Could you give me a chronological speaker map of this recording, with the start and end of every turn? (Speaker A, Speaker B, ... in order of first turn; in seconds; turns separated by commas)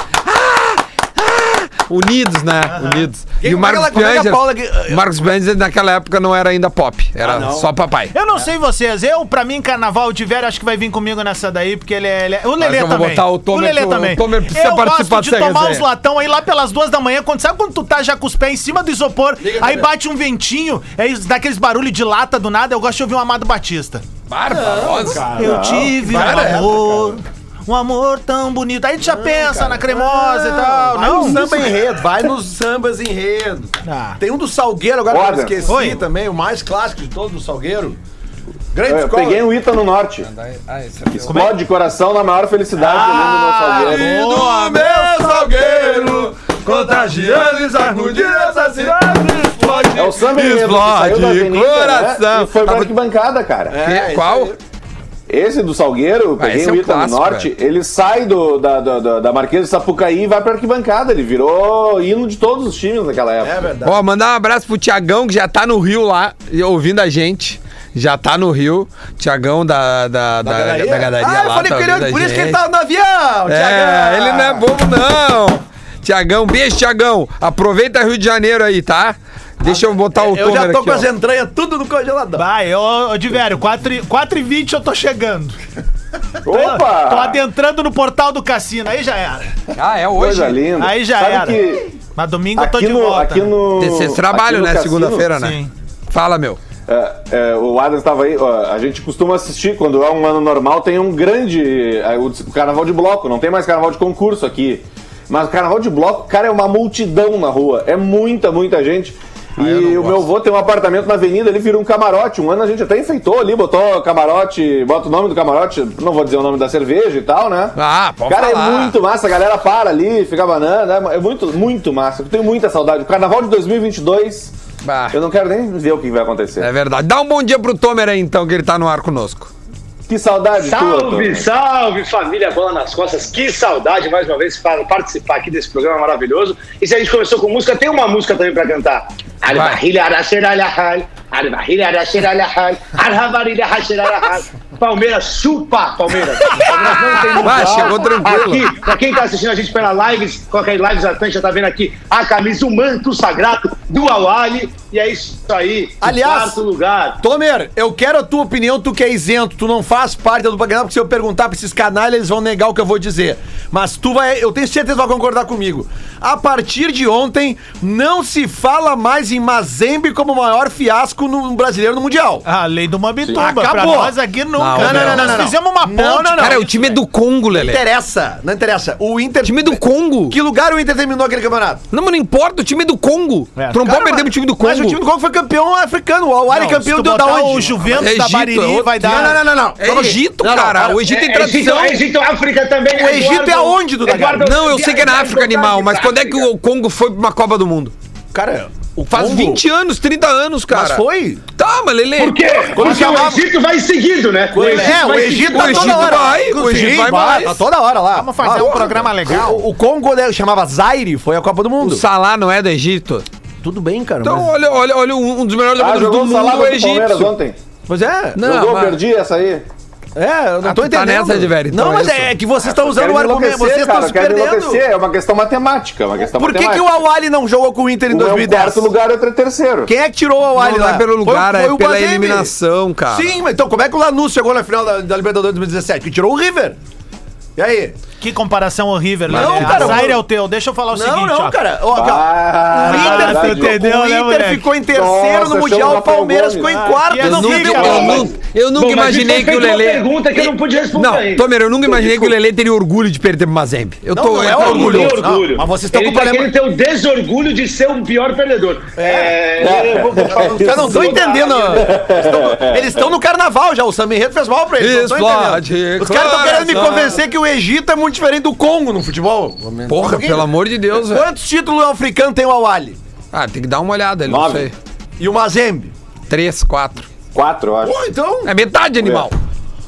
Speaker A: 0.2-8.1, Speaker B: 2.7-3.0, Speaker C: 3.4-5.0, Speaker C: 7.2-7.7, Speaker B: 8.1-24.0, Speaker A: 12.6-15.8, Speaker C: 19.4-19.9, Speaker A: 24.3-25.6, Speaker C: 24.5-27.2, Speaker B: 25.2-31.7, Speaker D: 25.4-26.1, Speaker A: 26.2-26.5, Speaker C: 29.0-38.0, Speaker B: 33.8-34.2, Speaker D: 35.1-35.8, Speaker B: 35.7-36.0, Speaker C: 38.7-39.5, Speaker D: 38.8-40.3, Speaker A: 40.2-41.5, Speaker D: 41.1-44.2, Speaker B: 41.3-41.6, Speaker B: 42.8-45.0, Speaker C: 42.8-50.1, Speaker A: 45.1-49.0, Speaker A: 49.5-52.9, Speaker D: 50.0-53.8, Speaker C: 53.7-54.6, Speaker A: 53.8-54.5, Speaker D: 55.3-63.7, Speaker A: 56.4-57.5, Speaker C: 63.4-64.0, Speaker A: 63.8-72.6, Speaker C: 70.4-74.7, Speaker A: 73.5-81.1, Speaker C: 79.6-82.4, Speaker B: 82.3-85.6, Speaker D: 86.4-87.4, Speaker B: 86.5-89.5, Speaker A: 89.7-90.7, Speaker D: 90.1-91.9, Speaker B: 90.7-91.6, Speaker B: 92.2-93.5, Speaker D: 92.5-95.3, Speaker A: 93.8-95.6, Speaker B: 95.3-95.7, Speaker A: 96.1-96.6, Speaker D: 96.9-117.8, Speaker A: 109.6-110.3, Speaker A: 117.8-119.0, Speaker D: 118.3-124.5, Speaker A: 124.8-125.2, Speaker D: 125.1-126.7, Speaker A: 126.6-129.5, Speaker D: 130.1-131.5, Speaker E: 130.6-157.2, Speaker A: 139.5-139.8, Speaker A: 146.4-148.7, Speaker C: 156.0-156.6, Speaker C: 157.2-172.4, Speaker B: 172.4-176.6, Speaker C: 173.3-174.2, Speaker A: 174.6-175.5, Speaker C: 174.7-176.9, Speaker A: 176.4-177.8, Speaker C: 177.5-181.8, Speaker A: 179.4-180.4, Speaker A: 181.9-185.0, Speaker B: 183.6-184.2, Speaker C: 183.9-188.0, Speaker B: 186.5-189.4, Speaker A: 187.9-192.0, Speaker C: 189.0-191.0, Speaker E: 191.0-196.5, Speaker C: 192.9-194.6, Speaker A: 194.4-197.9, Speaker C: 198.3-199.6, Speaker A: 199.0-201.0, Speaker C: 200.7-201.4, Speaker A: 201.6-202.4, Speaker E: 202.2-206.3, Speaker C: 202.7-203.4, Speaker C: 204.5-212.0, Speaker A: 205.4-207.6, Speaker B: 206.6-207.0, Speaker B: 208.1-209.6, Speaker A: 211.8-213.2, Speaker C: 213.6-214.5, Speaker A: 214.2-217.3, Speaker D: 215.8-217.6, Speaker C: 217.9-218.4, Speaker A: 218.3-219.0, Speaker D: 218.4-219.7, Speaker C: 220.1-224.8, Speaker A: 220.6-222.3, Speaker D: 222.6-227.0, Speaker C: 226.2-228.9, Speaker D: 228.1-229.9, Speaker C: 229.8-232.5, Speaker A: 230.5-233.3, Speaker C: 233.1-236.8, Speaker C: 237.6-238.0, Speaker B: 238.2-241.6, Speaker C: 239.3-240.2, Speaker D: 239.3-240.1, Speaker A: 239.5-239.8, Speaker C: 240.9-248.3, Speaker D: 241.9-243.7, Speaker B: 242.8-244.6, Speaker D: 244.9-246.9, Speaker B: 246.6-248.2, Speaker A: 247.2-255.2, Speaker D: 247.5-248.3, Speaker E: 248.8-251.5, Speaker D: 251.8-252.3, Speaker C: 254.1-256.5, Speaker E: 254.4-261.9, Speaker C: 258.9-273.0, Speaker D: 259.6-261.2, Speaker D: 261.7-263.0, Speaker A: 264.8-267.2, Speaker A: 269.9-271.3, Speaker A: 273.3-274.7, Speaker D: 274.2-274.7, Speaker C: 275.2-275.9, Speaker A: 276.3-277.1, Speaker D: 277.3-278.0, Speaker C: 277.8-278.5, Speaker A: 278.4-279.4, Speaker D: 279.0-279.3